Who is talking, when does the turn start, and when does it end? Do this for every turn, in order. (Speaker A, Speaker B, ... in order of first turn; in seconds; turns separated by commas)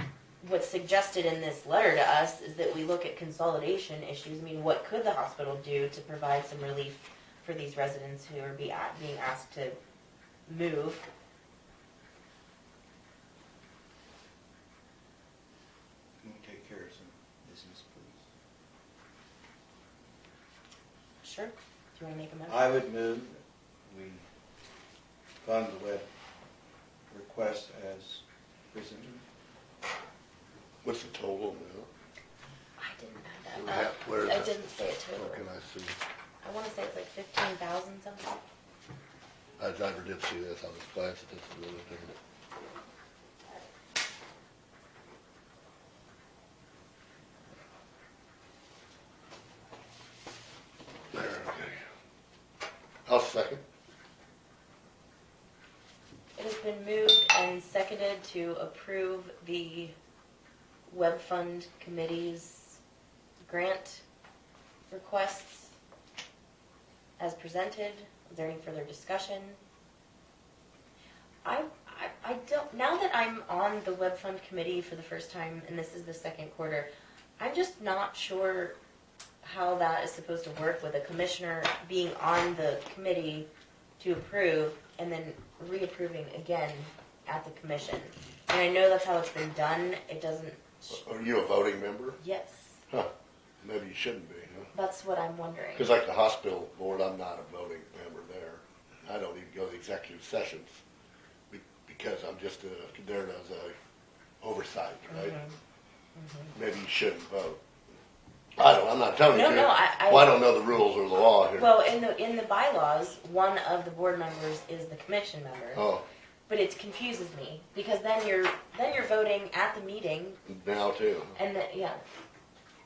Speaker A: 0.4-9.8, Speaker A: 10.5-11.1, Speaker B: 16.2-18.2, Speaker A: 21.2-22.7, Speaker B: 22.5-24.2, Speaker B: 25.4-26.1, Speaker B: 27.1-29.2, Speaker C: 30.8-31.9, Speaker A: 32.8-35.4, Speaker C: 33.5-36.0, Speaker A: 36.4-38.4, Speaker C: 39.6-42.2, Speaker C: 51.1-51.8, Speaker C: 53.1-53.6, Speaker A: 56.4-60.0, Speaker A: 60.9-62.8, Speaker A: 63.4-64.0, Speaker A: 64.9-65.7, Speaker A: 67.2-69.6, Speaker A: 71.5-78.8, Speaker A: 79.4-83.5, Speaker A: 84.0-91.0, Speaker C: 90.9-92.2, Speaker A: 92.2-92.8, Speaker C: 92.9-94.7, Speaker A: 94.7-95.9, Speaker C: 95.8-100.8, Speaker C: 101.5-103.8, Speaker C: 104.4-105.3, Speaker A: 105.1-105.6, Speaker A: 106.2-106.5, Speaker C: 106.5-107.6, Speaker C: 108.6-111.7, Speaker A: 109.3-110.4, Speaker A: 111.6-115.8, Speaker C: 115.7-116.0, Speaker A: 116.5-120.4, Speaker C: 120.5-121.4, Speaker A: 121.4-122.0